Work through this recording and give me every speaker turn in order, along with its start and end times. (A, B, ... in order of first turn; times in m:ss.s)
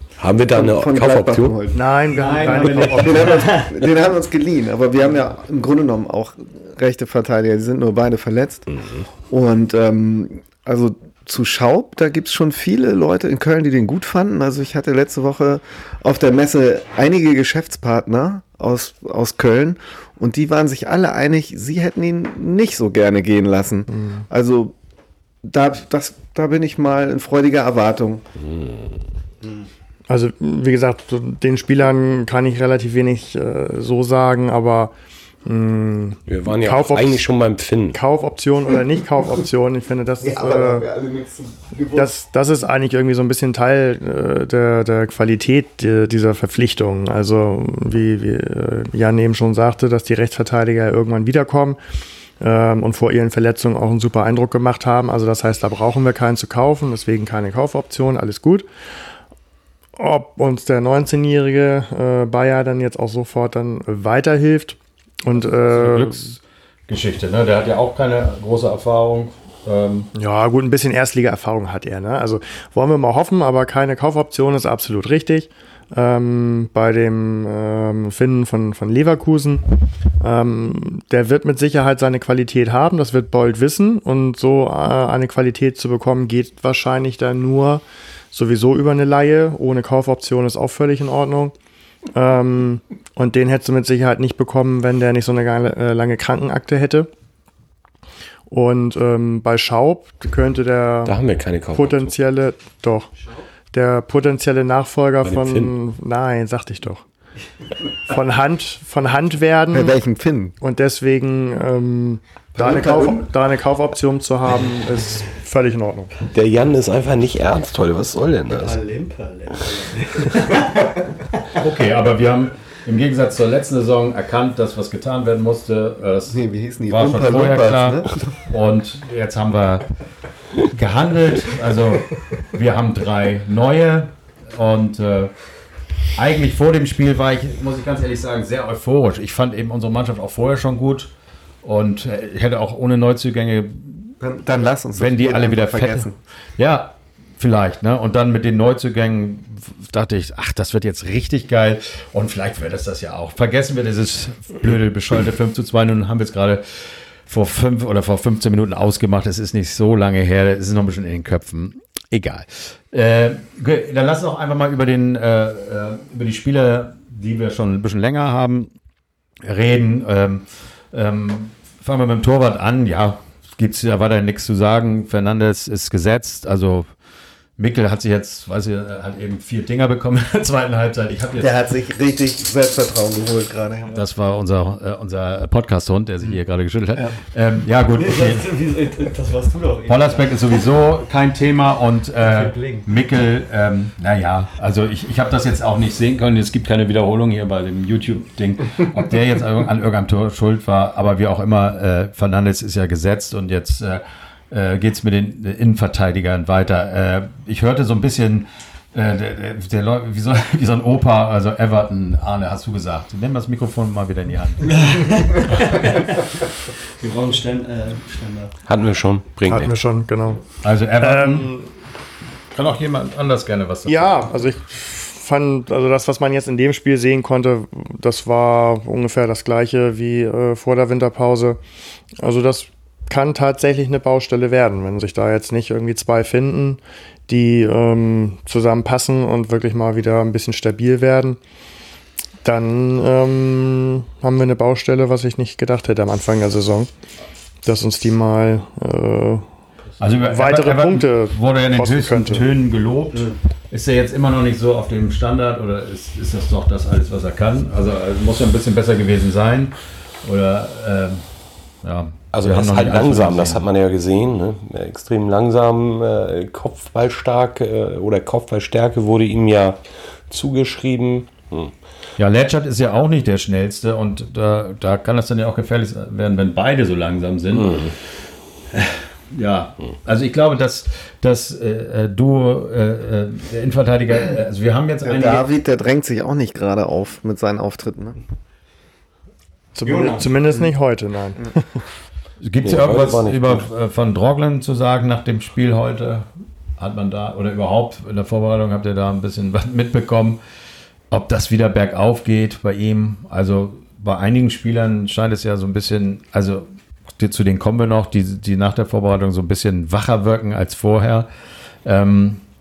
0:00.2-0:01.6 A
0:00.5-0:08.7 B
0:01.7-0:03.4 C
0:02.1-0:03.8 D
0:08.7-0:09.0 A
0:09.3-0:24.7 B
0:23.9-0:24.2 C
0:25.4-0:28.2 B
0:28.4-0:29.0 A
0:30.1-0:34.9 C
0:35.4-0:37.3 C
0:36.3-0:38.0 A
0:37.9-0:40.9 C
0:40.2-0:42.1 B
0:41.9-0:51.8 C
0:52.4-0:58.7 C
1:00.0-1:06.3 C
1:05.6-1:10.1 E
1:10.1-1:19.6 C
1:20.2-1:31.5 C
1:32.1-1:37.1 C
1:38.5-1:41.2 C
1:41.0-1:42.1 A
1:41.7-1:43.1 C
1:43.7-1:47.0 C
1:45.2-1:45.7 A
1:48.0-1:50.0 C
1:49.7-1:50.5 B
1:50.6-1:56.1 C
1:52.5-1:53.2 B
1:56.3-1:58.8 A
1:58.5-2:01.1 D
2:01.5-2:09.9 E
2:06.3-2:08.4 B
2:10.6-2:15.3 E
2:16.1-2:21.1 E
2:21.6-2:24.2 E
2:24.2-2:26.2 B
2:24.9-2:36.6 E
2:37.3-2:48.7 E
2:49.4-2:56.9 E
2:57.6-3:01.5 E
3:01.4-3:04.0 B
3:03.9-3:08.5 E
3:07.9-3:10.5 D
3:09.9-3:36.0 E
3:12.2-3:12.9 D
3:34.6-3:38.5 D
3:38.6-3:39.7 A
3:39.5-3:40.4 C
3:40.6-3:41.5 E
3:41.0-3:41.7 C
3:42.5-3:44.3 E
3:43.8-3:51.6 C
3:52.2-4:01.4 C
4:02.4-4:06.9 C
4:07.6-4:09.4 C
4:10.0-4:21.2 E
4:10.3-4:12.5 C
4:21.8-4:23.6 E
4:22.3-4:31.7 A
4:32.2-4:37.9 E
4:37.5-4:37.9 A
4:38.7-4:45.4 E
4:45.0-4:48.2 B
4:49.7-4:51.7 C
4:49.8-4:50.3 D
4:52.4-4:56.3 E
4:52.6-4:53.7 A
4:56.8-5:00.4 E
5:01.1-5:06.6 E
5:07.2-5:11.3 E
5:11.8-5:12.4 E